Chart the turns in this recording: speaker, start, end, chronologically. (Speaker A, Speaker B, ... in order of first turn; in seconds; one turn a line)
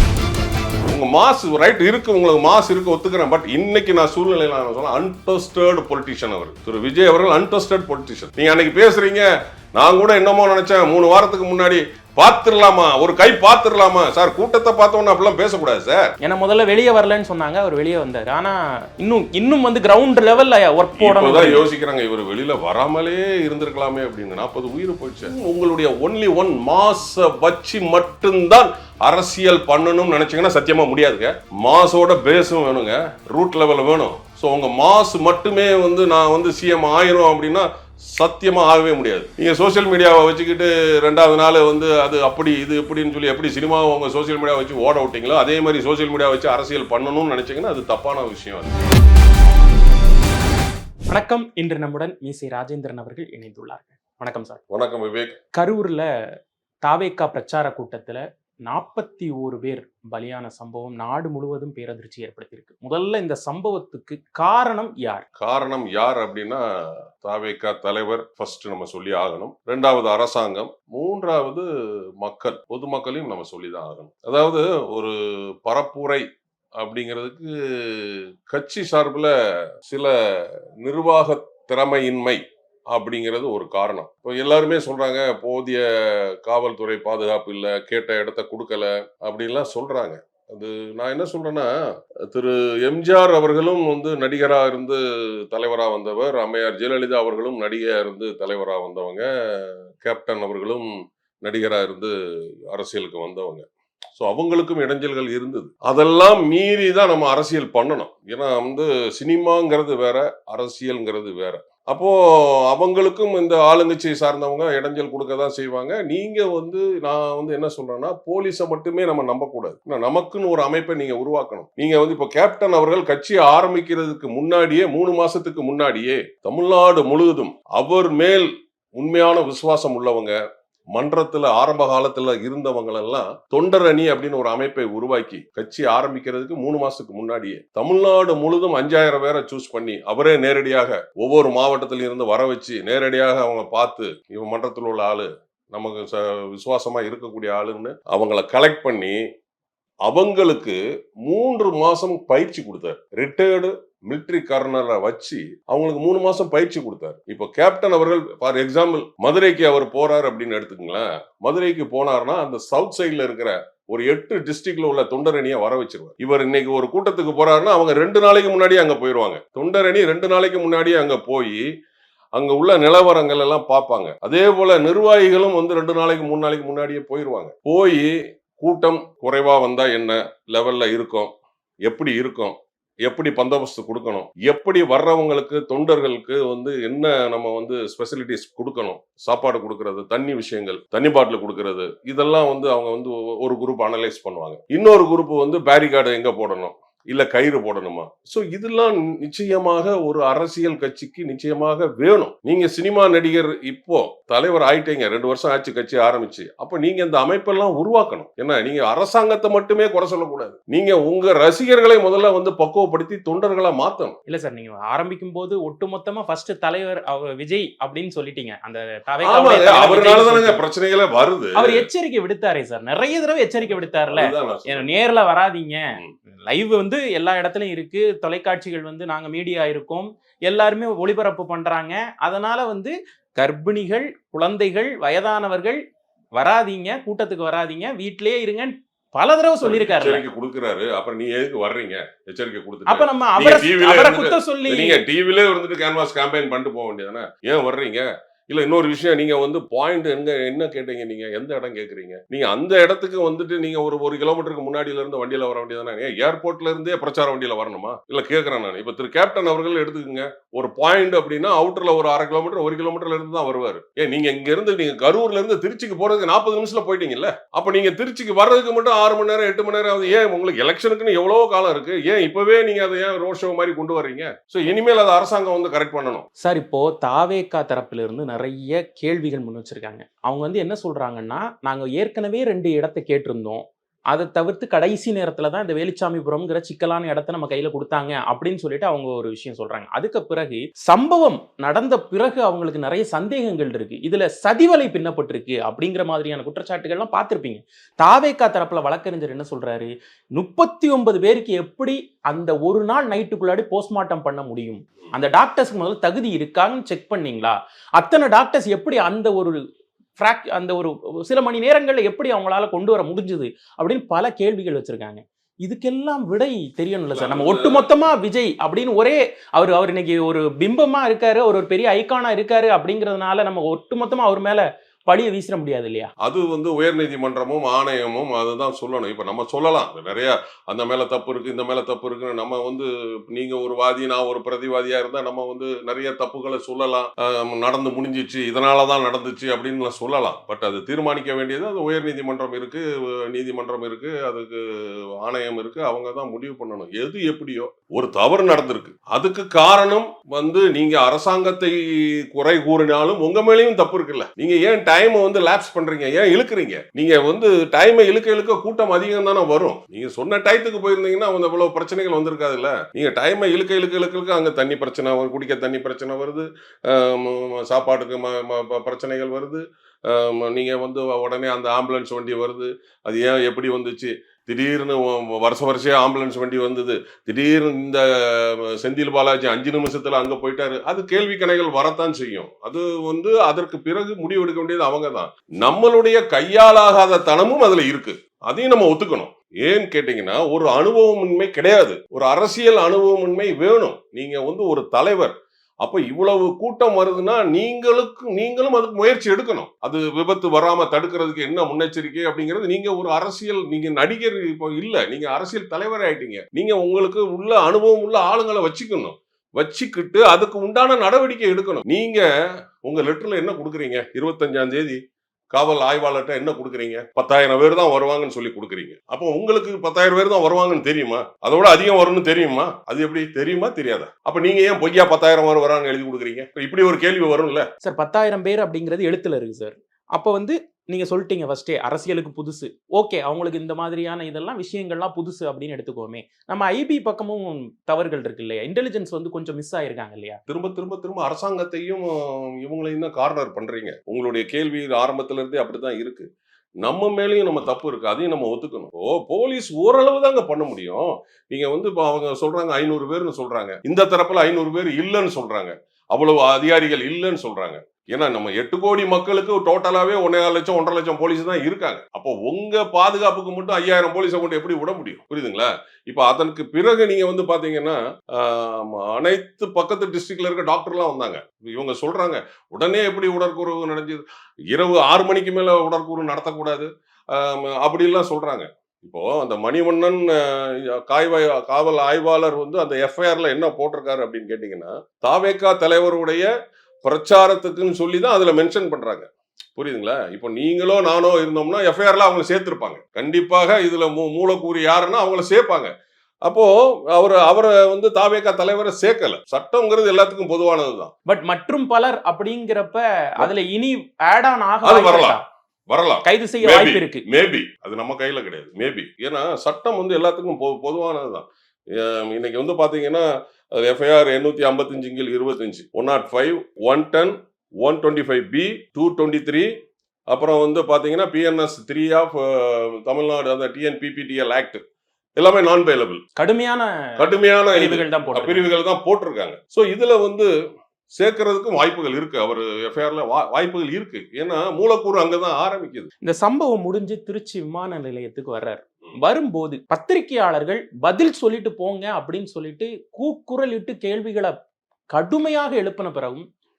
Speaker A: 0.9-16.1
Speaker B: 16.2-21.6
Speaker A: 21.0-48.8
Speaker B: 51.1-54.6
Speaker A: 54.7-55.4
Speaker B: 55.5-56.1
Speaker B: 56.8-65.2
Speaker A: 65.4-71.7
Speaker A: 72.2-76.3
Speaker A: 76.8-79.3
Speaker A: 79.9-100.9
Speaker A: 101.4-102.1
Speaker A: 102.7-130.4
Speaker A: 130.9-149.2
Speaker A: 150.1-171.6
Speaker A: 172.4-181.3
Speaker A: 181.9-214.2
Speaker B: 214.3-220.6
Speaker A: 219.2-221.9
Speaker B: 221.6-235.8
Speaker A: 224.1-224.9
Speaker B: 236.4-240.2
Speaker A: 239.6-276.3
Speaker B: 242.9-245.0
Speaker B: 276.4-309.6
Speaker B: 310.2-326.1
Speaker A: 317.1-317.9
Speaker A: 326.2-412.2
Speaker A: 412.8-415.0
Speaker A: 415.5-427.7
Speaker B: 427.8-440.4
Speaker A: 440.5-446.3
Speaker A: 446.8-486.5
Speaker A: 487.0-495.9
Speaker A: 496.4-501.1
Speaker B: 501.3-505.4
Speaker A: 504.8-505.4
Speaker A: 505.9-519.7
Speaker B: 506.2-507.2
Speaker A: 520.3-524.8
Speaker A: 525.4-526.2
Speaker B: 526.4-528.7
Speaker A: 527.2-530.5
Speaker A: 531.1-536.1
Speaker B: 536.2-544.5
Speaker B: 545.1-546.5